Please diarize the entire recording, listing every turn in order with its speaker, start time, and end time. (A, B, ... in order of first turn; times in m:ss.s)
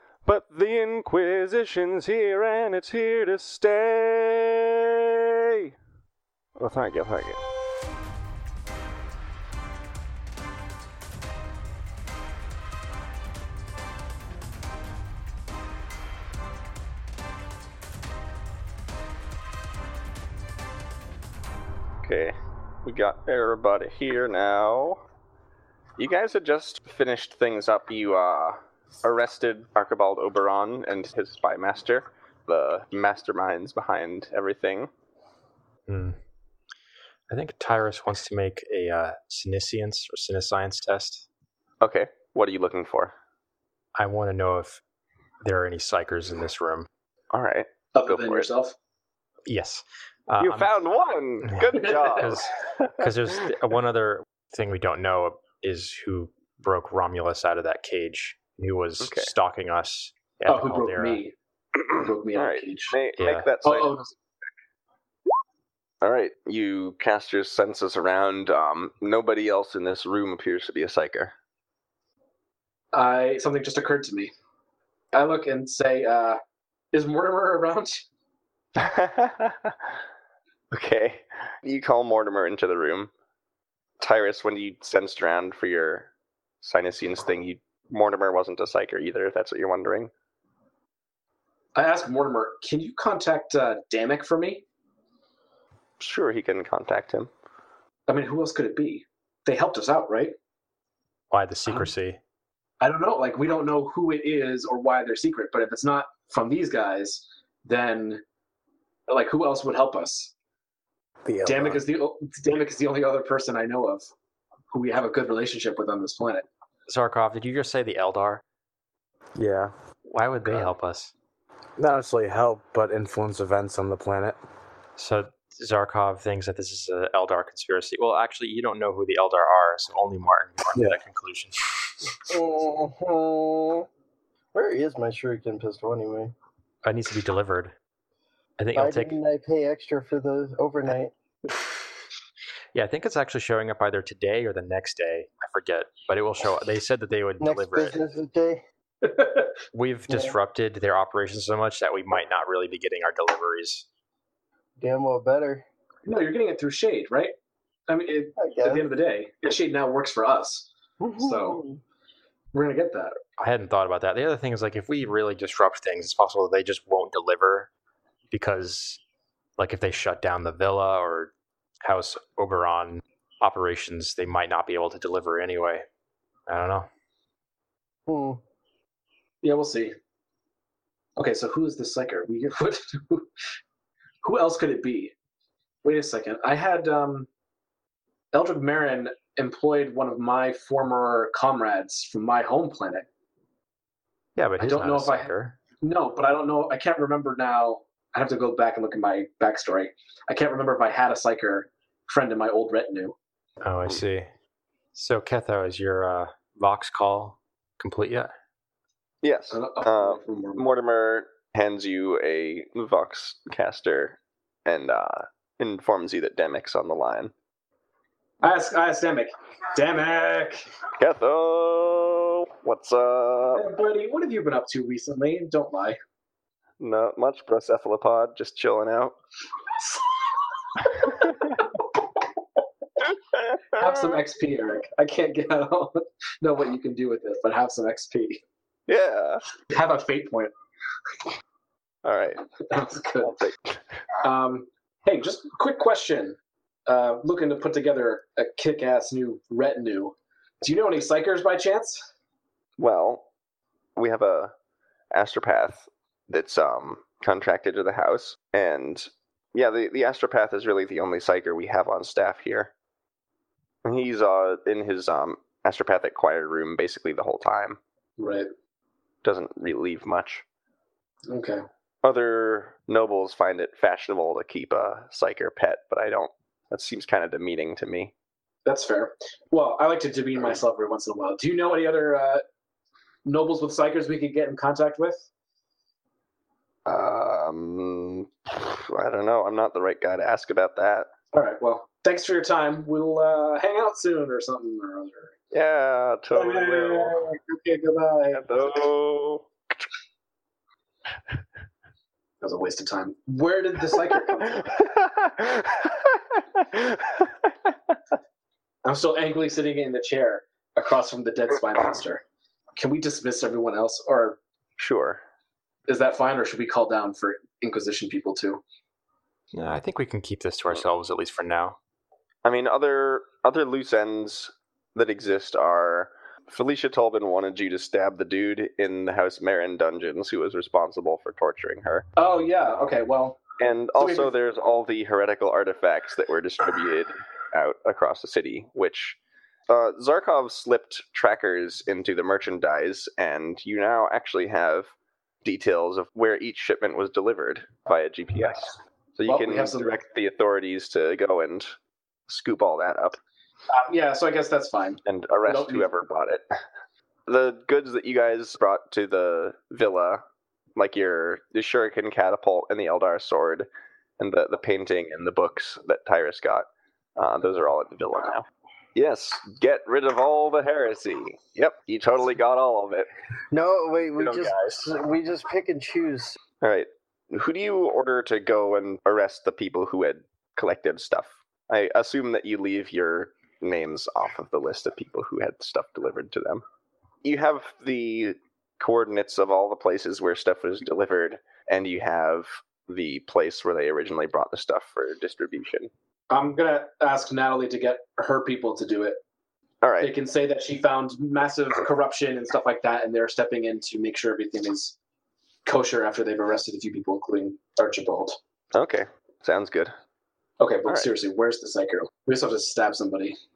0:00.2-0:04.8 A
0:05.3-0:05.7 A
0:06.6-0:07.4 A
0:22.0-0:25.0 A
0:26.0-0:34.9 A
0:35.9-0:36.2 B
0:37.3-0:41.3 B
0:41.8-0:43.1 A
0:44.0-0:44.8 B
0:45.4-0:46.9 B
0:47.3-0:48.4 A
0:48.0-0:48.7 C
0:49.5-0:50.7 B
0:50.4-0:53.1 A
0:51.5-1:01.2 B
0:51.8-0:52.3 C
0:59.0-0:59.3 A
1:00.5-1:01.3 C
1:01.9-1:03.0 C
1:02.3-1:04.0 A
1:03.2-1:03.5 B
1:03.6-1:04.1 C
1:06.0-1:11.3 A
1:12.9-1:14.3 C
1:15.1-1:16.4 C
1:16.9-1:18.0 C
1:18.8-1:19.9 A
1:20.7-1:23.1 A
1:24.0-1:26.1 A
1:26.6-1:30.1 A
1:31.8-1:34.6 C
1:36.0-1:37.3 A
1:38.1-1:40.3 C
1:41.3-1:42.2 B
1:42.8-1:48.2 C
1:49.1-1:50.3 C
1:51.2-1:51.8 D
1:51.4-1:54.0 C
1:54.7-1:56.4 C
1:56.9-1:58.4 B
1:59.4-1:59.7 D
2:00.1-2:01.1 B
2:01.8-2:04.4 D
2:05.0-2:12.2 B
2:12.3-2:13.9 E
2:14.5-2:16.3 E
2:16.8-2:17.7 B
2:18.6-2:19.1 B
2:18.8-2:21.1 E
2:22.7-2:28.0 B
2:27.4-2:28.6 E
2:29.0-2:29.5 C
2:29.7-2:33.8 B
2:30.1-2:30.4 E
2:34.8-2:35.6 E
2:36.1-2:37.3 C
2:37.9-2:41.6 C
2:38.4-2:38.8 E
2:41.0-2:41.8 E
2:42.5-2:43.2 C
2:43.4-2:47.7 B
2:48.3-2:49.0 B
2:49.6-2:55.9 B
2:56.5-2:56.9 B
2:58.1-2:58.4 E
2:59.4-2:59.9 C
3:01.2-3:03.3 C
3:04.2-3:05.1 C
3:05.8-3:07.3 C
3:08.3-3:13.1 C
3:14.4-3:15.6 B
3:14.6-3:23.2 C
3:23.6-3:24.3 B
3:24.9-3:28.3 B
3:29.2-3:37.3 A
3:29.5-3:30.6 C
3:38.4-3:40.7 C
3:41.0-3:43.7 A
3:43.6-3:46.0 C
3:46.8-3:49.2 A
3:51.1-3:51.4 A
3:53.3-3:54.2 A
3:53.8-3:58.4 C
3:58.9-3:59.4 A
3:59.7-4:00.5 C
4:02.0-4:02.5 A
4:02.7-4:03.4 C
4:03.2-4:03.8 A
4:04.2-4:12.1 C
4:12.8-4:13.2 A
4:14.0-4:14.5 A
4:15.1-4:22.7 A
4:23.8-4:27.8 A
4:28.2-4:28.5 C
4:29.2-4:30.4 A
4:31.3-4:31.6 C
4:32.0-4:38.1 A
4:38.7-4:42.4 C
4:43.2-4:45.3 C
4:46.9-4:51.1 A
4:51.3-4:55.3 C
4:55.5-4:57.3 A
4:56.3-4:58.9 C
4:58.3-4:59.5 A
5:02.4-5:04.8 C
5:04.8-5:08.0 A
5:08.8-5:12.2 C
5:12.8-5:14.4 C
5:14.8-5:15.2 A
5:15.9-5:18.6 C
5:19.5-5:21.8 B
5:22.4-5:32.1 A
5:32.2-5:33.4 C
5:33.6-5:39.2 A
5:34.0-5:34.3 C
5:39.7-5:44.9 A
5:45.4-5:51.8 A
5:48.4-5:48.8 C
5:49.2-5:50.0 C
5:52.3-5:53.2 A
5:53.7-5:55.9 C
5:55.0-5:56.4 A
5:57.3-6:00.2 A
6:00.8-6:03.7 A
6:04.2-6:13.1 A
6:13.5-6:16.4 E
6:14.2-6:14.9 A
6:16.6-6:26.6 A
6:27.2-6:35.9 A
6:36.3-6:39.2 C
6:39.8-6:40.1 A
6:40.0-6:45.0 C
6:45.6-6:48.4 C
6:48.7-6:49.9 A
6:50.6-6:53.4 C